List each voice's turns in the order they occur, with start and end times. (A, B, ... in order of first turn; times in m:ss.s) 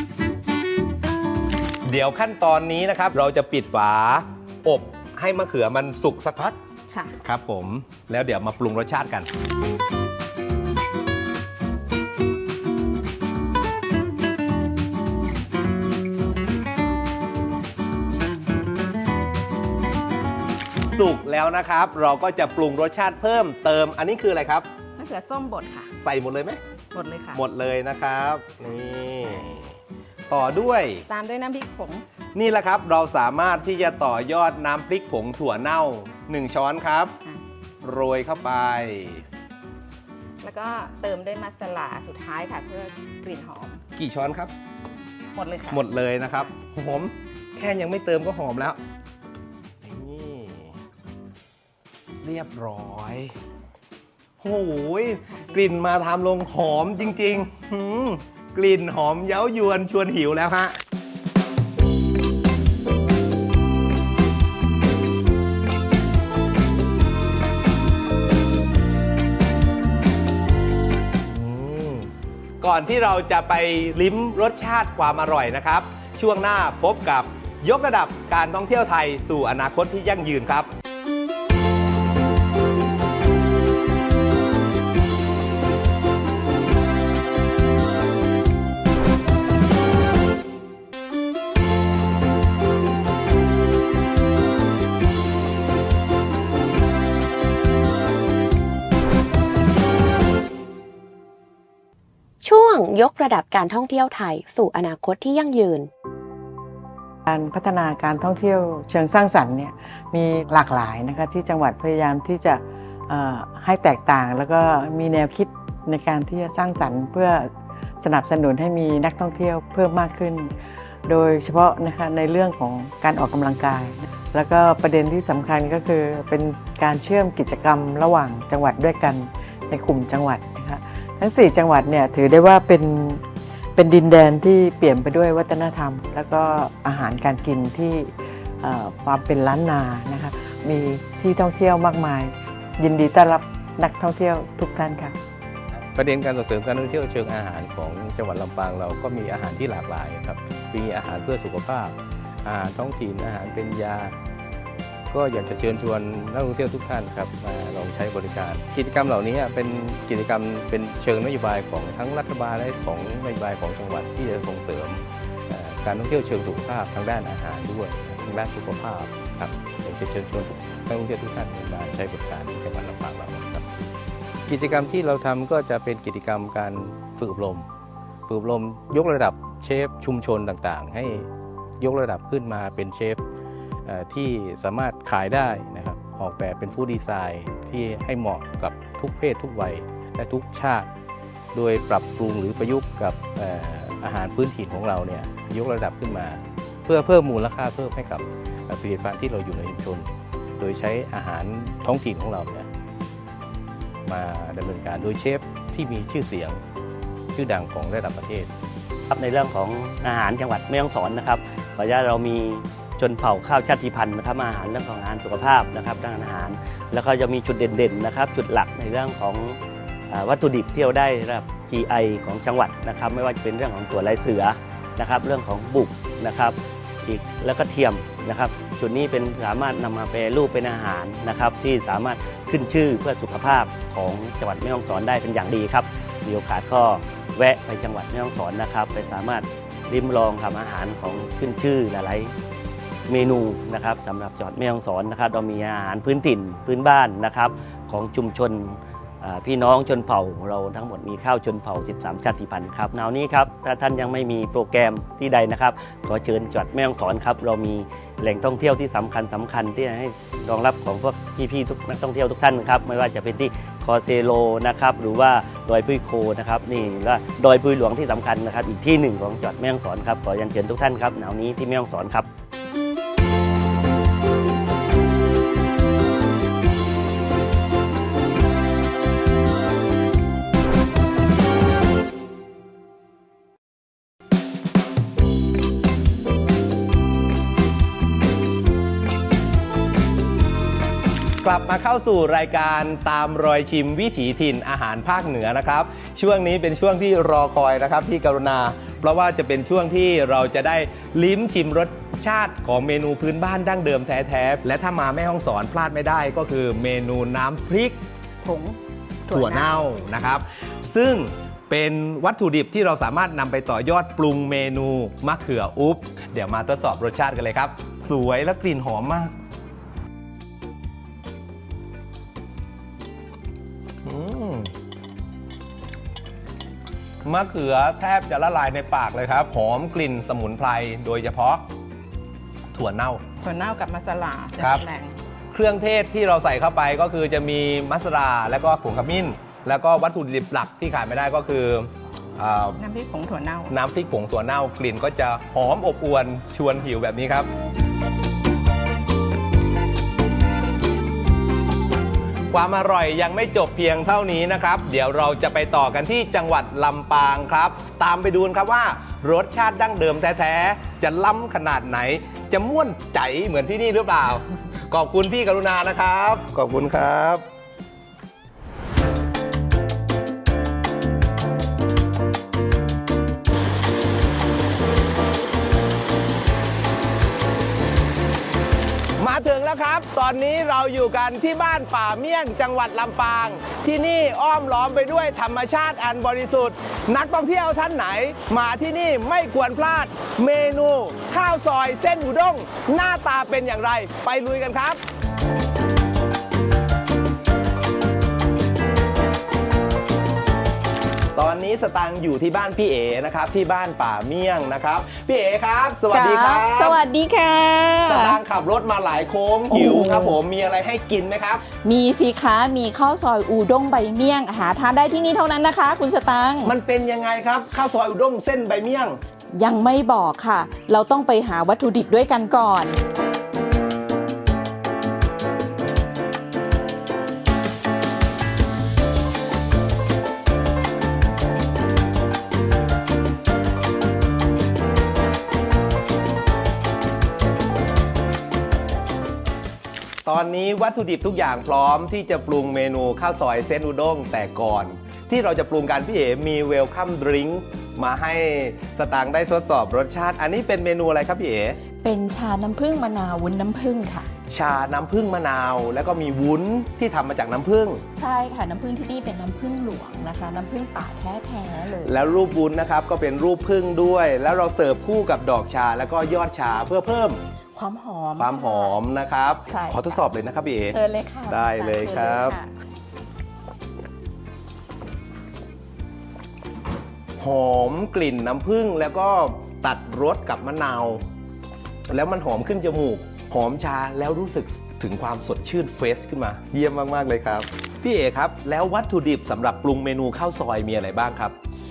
0:01.8-0:06.6 A
0:07.2-0:09.3 A
0:20.9-0:24.7 A
0:25.0-0:25.9 B
0:26.0-0:26.6 A
0:26.9-0:27.4 B
0:27.3-0:29.7 A
0:30.3-0:31.0 A
0:31.1-0:32.0 B
0:32.3-0:37.1 A
0:37.8-0:39.2 A
0:40.4-0:43.8 B
0:44.0-0:44.5 A
0:45.3-0:45.8 B
0:45.7-0:48.8 A
0:49.8-0:50.8 A
0:52.2-0:53.3 A
0:54.4-1:00.8 A
0:55.3-0:55.6 B
1:11.3-1:12.1 A
1:12.6-1:20.7 A
1:42.4-1:45.9 C
1:47.2-1:57.5 D
1:58.0-2:00.5 D
2:01.0-2:13.2 D
2:13.8-2:25.2 D
2:25.9-2:34.1 E
2:35.1-2:53.6 E
2:54.5-2:57.6 E
2:58.3-3:01.3 E
3:01.8-3:03.2 E
3:03.8-3:10.9 E
3:11.5-3:22.7 E
3:24.0-3:26.6 E
3:27.3-3:28.5 E
3:29.1-3:39.6 F
3:40.1-4:02.3 F
4:03.1-4:32.3 F
4:51.4-5:08.0 A
5:08.4-5:08.8 G
5:09.3-5:09.6 B
5:09.3-5:19.3 A
5:24.0-5:24.7 A
5:27.2-5:31.6 A
5:32.7-5:33.2 A
5:33.4-5:35.1 B
5:34.6-5:34.8 A
5:35.5-5:42.8 A
5:42.8-5:43.7 B
5:43.7-5:47.5 A
5:52.5-6:07.4 A
6:19.2-6:35.0 A
6:41.3-6:47.0 A
6:46.1-6:48.4 G
6:48.0-6:51.6 A
6:49.7-6:50.4 G
6:51.8-6:56.7 G
6:56.6-6:59.2 A
6:59.5-7:03.0 G
7:20.2-7:31.8 A
7:32.0-7:34.3 G
7:34.5-7:38.0 A
7:38.1-7:42.2 G
7:42.0-7:47.4 A
7:47.7-7:49.0 G
7:48.4-7:51.0 A
7:49.7-7:50.2 G
7:50.9-7:52.7 G
7:51.5-7:52.6 A
7:57.4-8:01.2 A
8:02.1-8:11.5 A